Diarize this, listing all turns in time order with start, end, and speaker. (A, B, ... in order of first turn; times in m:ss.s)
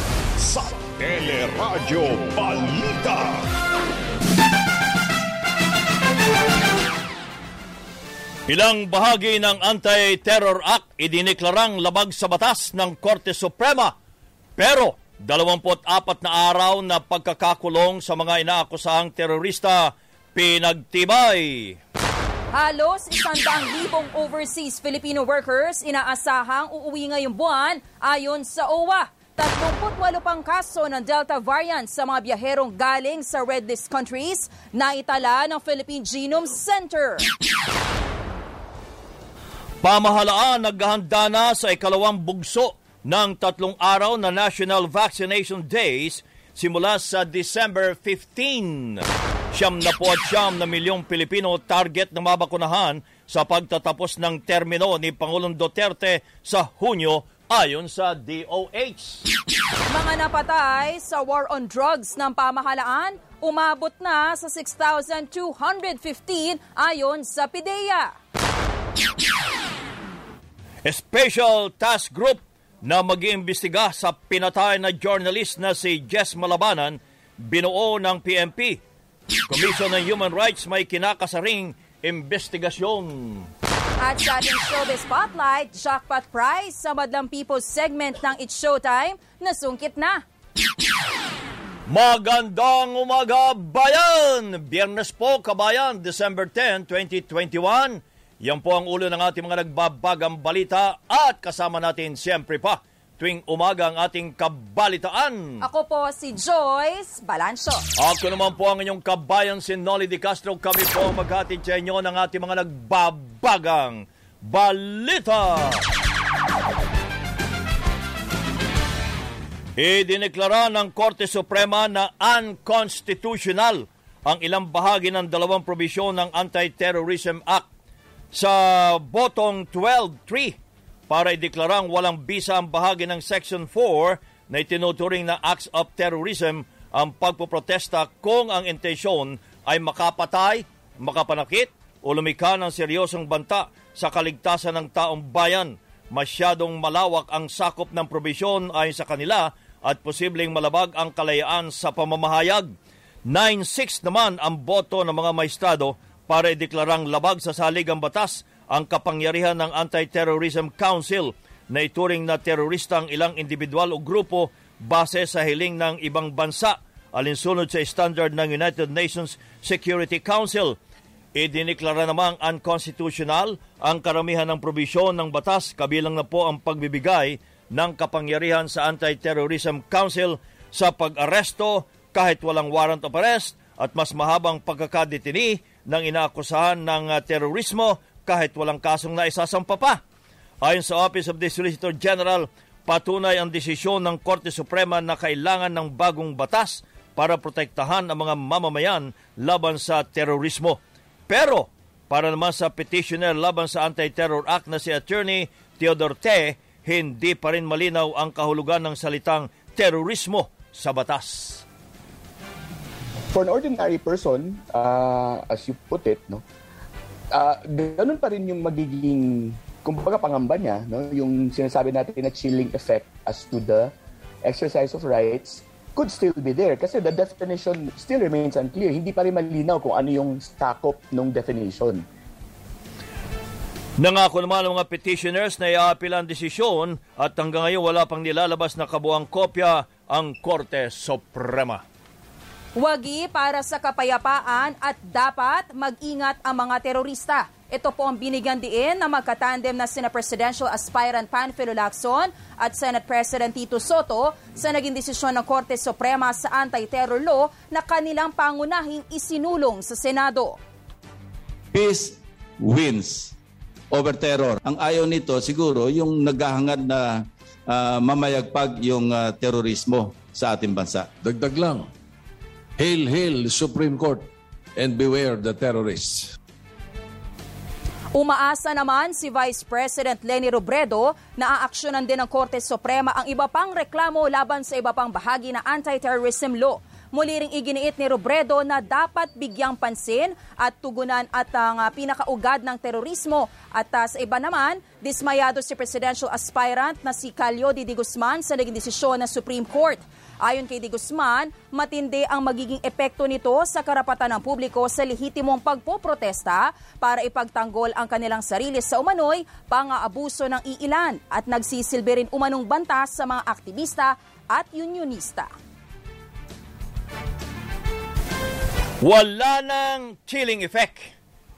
0:00.4-0:03.4 A
0:08.5-0:13.9 B
0:14.6-0:21.8 B
0:22.5-0:37.3 C
0:39.8-0:59.2 B
0:59.9-1:08.1 C
1:10.8-1:18.8 B
1:19.5-1:23.5 B
1:24.0-1:30.2 C
1:31.9-1:45.6 B
1:45.6-1:47.8 C
1:48.0-1:55.8 B
1:59.8-2:07.7 B
2:08.3-2:10.6 B
2:11.1-2:32.7 B
2:33.3-2:50.8 B
2:51.4-3:10.0 B
3:10.6-3:20.8 B
3:21.3-3:31.6 B
3:33.3-3:36.4 D
3:37.3-3:43.9 D
3:44.4-3:52.0 D
3:54.0-4:01.8 B
4:02.8-4:20.6 C
4:21.7-4:23.3 E
4:23.9-4:27.1 E
4:27.7-4:31.1 E
4:31.2-4:31.9 F
4:32.8-4:36.3 F
4:38.2-5:15.5 C
5:19.0-5:21.1 B